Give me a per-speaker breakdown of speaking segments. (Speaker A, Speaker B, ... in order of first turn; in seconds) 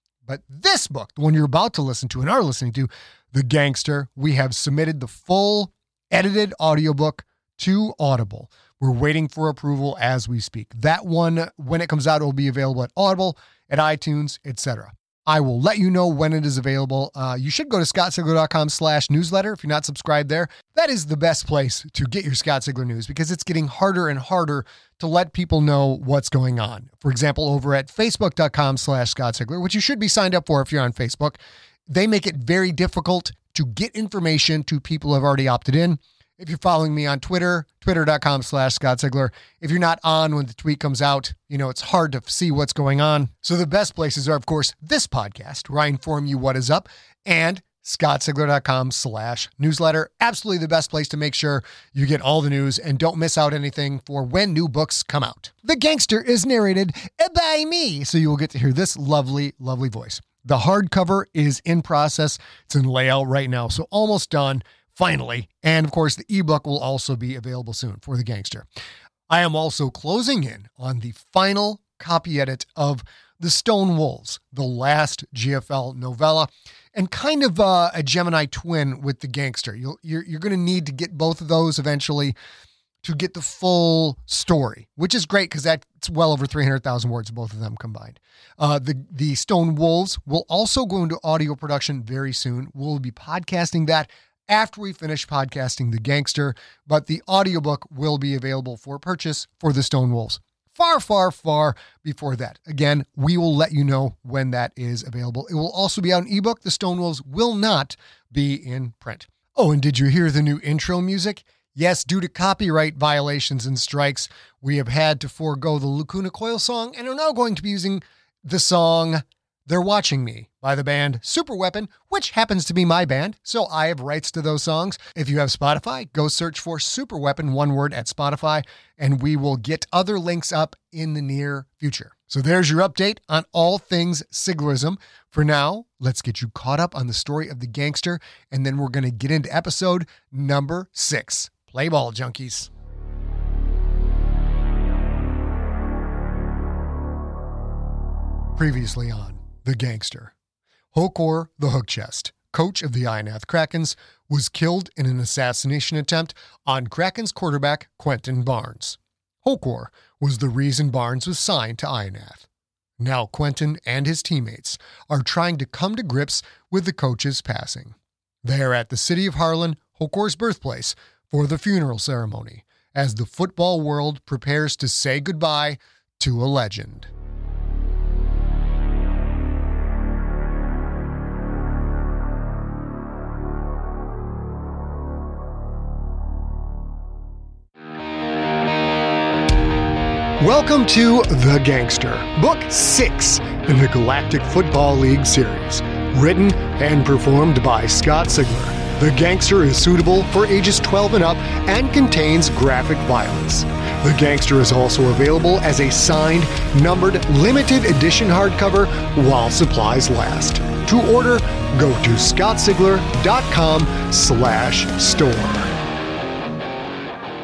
Speaker A: 0.2-68.7, 69.3-82.3, 83.0-142.7, 148.6-150.3, 150.9-162.5, 163.0-177.1, 190.4-215.7